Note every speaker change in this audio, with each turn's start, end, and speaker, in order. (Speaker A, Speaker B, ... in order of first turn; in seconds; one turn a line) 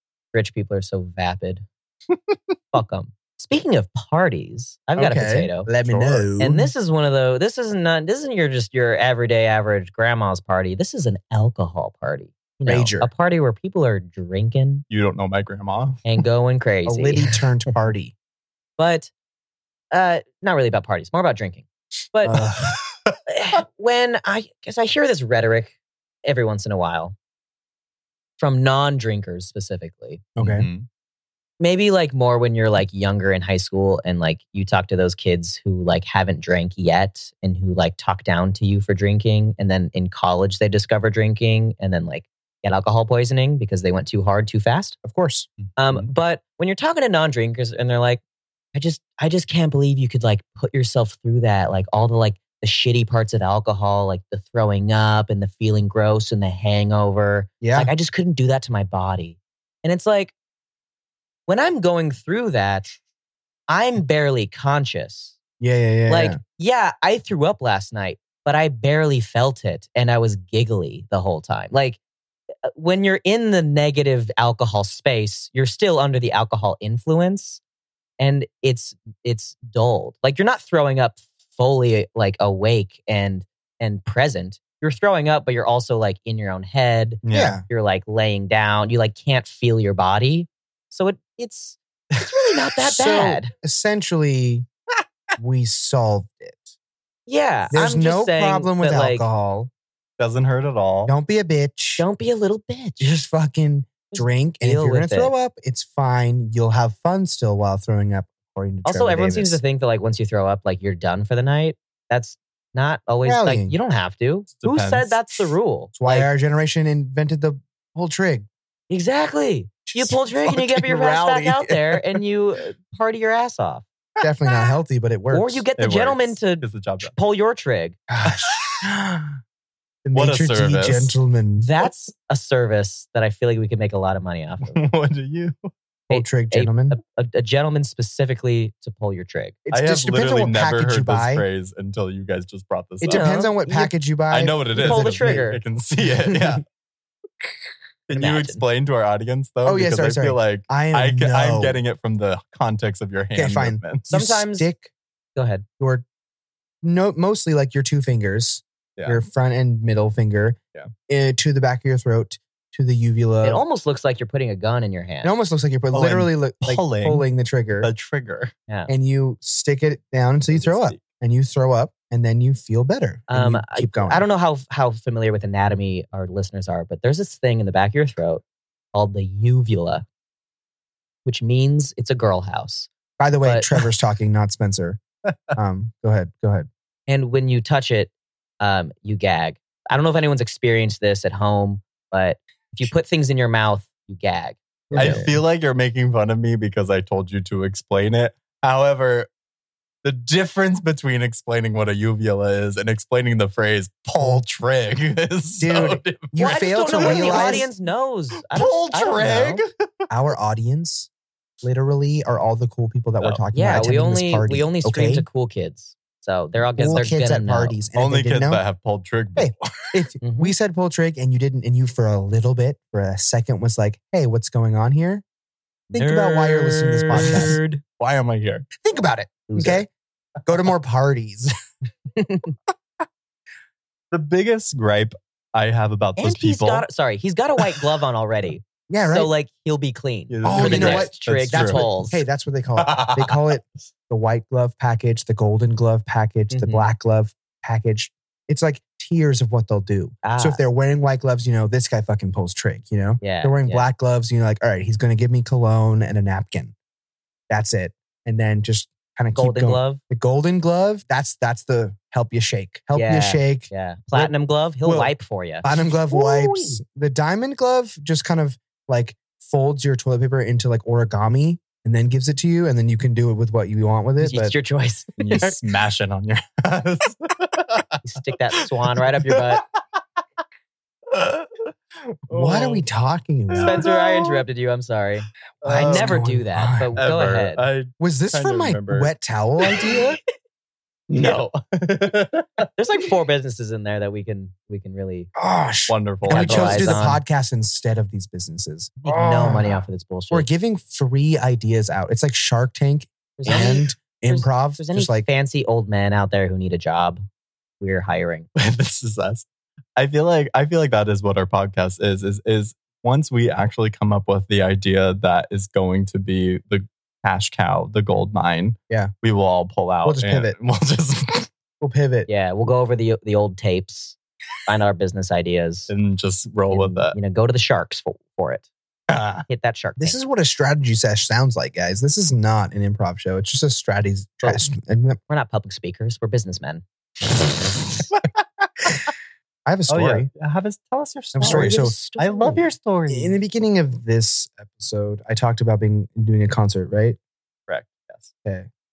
Speaker A: 0.3-1.6
Speaker A: 2.7-5.7
Speaker B: 5.0-6.7
Speaker C: 5.8-6.2
Speaker A: 6.4-14.8
Speaker B: 12.7-13.1
Speaker C: 14.9-16.0
Speaker A: 16.0-17.3
Speaker B: 16.9-18.1
Speaker A: 18.8-19.1
Speaker A: 19.9-22.4
Speaker B: 22.2-22.8
Speaker C: 22.6-23.1
Speaker A: 23.3-27.1
Speaker A: 28.4-30.2
Speaker B: 30.4-30.7
Speaker C: 30.4-30.9
Speaker A: 31.6-45.0
Speaker B: 45.0-45.5
Speaker C: 45.6-46.1
Speaker A: 45.8-48.2
Speaker A: 48.7-60.3
Speaker B: 57.6-57.9
Speaker A: 61.5-62.9
Speaker A: 63.7-65.4
Speaker B: 65.6-66.4
Speaker A: 66.1-72.0
Speaker A: 72.7-77.6
Speaker A: 78.2-93.5
Speaker C: 87.2-87.6
Speaker B: 87.3-87.6
Speaker C: 92.1-92.5
Speaker B: 92.8-94.7
Speaker B: 95.4-96.7
Speaker A: 97.3-99.3
Speaker B: 97.7-99.7
Speaker C: 100.2-101.1
Speaker B: 101.0-102.0
Speaker A: 102.0-103.1
Speaker B: 103.0-109.6
Speaker A: 104.1-105.3
Speaker A: 108.8-116.3
Speaker B: 113.2-113.7
Speaker C: 114.5-115.5
Speaker B: 115.9-118.5
Speaker A: 118.9-123.8
Speaker B: 119.8-122.0
Speaker B: 124.2-125.6
Speaker C: 124.2-124.5
Speaker A: 125.3-128.0
Speaker C: 125.8-127.1
Speaker B: 128.1-129.4
Speaker C: 128.2-128.8
Speaker B: 130.0-131.7
Speaker C: 130.1-131.1
Speaker A: 131.6-134.8
Speaker C: 134.7-135.7
Speaker B: 136.1-137.0
Speaker A: 136.1-139.6
Speaker B: 139.7-141.4
Speaker C: 139.7-143.2
Speaker B: 143.0-145.4
Speaker A: 143.0-143.9
Speaker C: 144.3-146.6
Speaker A: 144.8-145.6
Speaker B: 146.3-146.6
Speaker C: 148.1-154.1
Speaker A: 148.1-148.6
Speaker B: 149.6-151.8
Speaker B: 153.3-154.9
Speaker A: 154.1-154.7
Speaker A: 155.3-155.6
Speaker B: 155.8-156.0
Speaker B: 156.8-163.6
Speaker C: 159.0-159.2
Speaker A: 163.4-165.3
Speaker B: 165.2-167.9
Speaker C: 165.9-167.2
Speaker C: 167.8-168.5
Speaker B: 168.9-174.2
Speaker C: 170.5-171.0
Speaker A: 173.3-178.4
Speaker A: 178.9-180.0
Speaker A: 181.2-182.9
Speaker B: 183.2-185.0
Speaker A: 183.4-183.7
Speaker C: 185.2-185.5
Speaker B: 185.5-186.7
Speaker A: 187.1-195.3
Speaker B: 194.9-195.4
Speaker C: 194.9-199.3
Speaker C: 200.0-206.3
Speaker B: 205.6-207.7
Speaker A: 206.3-209.6
Speaker C: 206.9-207.7
Speaker C: 208.5-209.7
Speaker B: 210.1-211.1
Speaker B: 211.6-215.3
Speaker A: 213.5-217.8
Speaker B: 216.8-218.6
Speaker C: 217.9-219.9
Speaker B: 219.3-225.2
Speaker A: 220.2-220.5
Speaker A: 225.9-227.8
Speaker B: 225.9-227.6
Speaker C: 227.1-228.7
Speaker B: 228.8-229.9
Speaker A: 229.5-229.8
Speaker B: 230.4-231.5
Speaker C: 234.1-236.8
Speaker A: 236.2-242.2
Speaker B: 238.9-239.3
Speaker C: 240.3-241.9
Speaker B: 240.4-256.7
Speaker C: 242.8-243.6
Speaker A: 246.5-246.9
Speaker A: 250.2-250.6
Speaker A: 253.2-253.9
Speaker B: 257.5-264.3
Speaker A: 259.3-260.0
Speaker A: 262.9-266.7
Speaker B: 264.8-265.1
Speaker B: 265.6-274.5
Speaker A: 274.2-275.5
Speaker C: 275.2-277.9
Speaker A: 278.0-279.6
Speaker C: 278.6-279.8
Speaker C: 281.1-281.7
Speaker C: 282.3-282.9
Speaker B: 282.3-283.8
Speaker C: 283.5-284.4
Speaker A: 283.6-285.3
Speaker C: 285.6-286.2
Speaker B: 285.6-287.0
Speaker A: 285.8-287.6
Speaker C: 287.0-289.1
Speaker B: 288.0-290.2
Speaker C: 291.1-292.7
Speaker A: 292.8-295.3
Speaker B: 295.3-305.3
Speaker C: 295.9-297.1
Speaker A: 296.3-297.2
Speaker A: 299.0-300.5
Speaker A: 303.4-307.2
Speaker A: 307.8-308.5
Speaker C: 308.6-321.5
Speaker B: 320.0-320.6
Speaker B: 321.8-322.3
Speaker A: 322.3-325.9
Speaker C: 325.9-327.1
Speaker A: 326.7-328.7
Speaker C: 329.1-329.4
Speaker A: 329.5-330.2
Speaker B: 330.0-335.2
Speaker A: 335.3-336.8
Speaker C: 338.1-339.1
Speaker B: 339.6-340.3
Speaker C: 339.9-343.4
Speaker B: 341.3-341.9
Speaker A: 341.4-342.6
Speaker B: 343.1-347.2
Speaker C: 347.7-348.3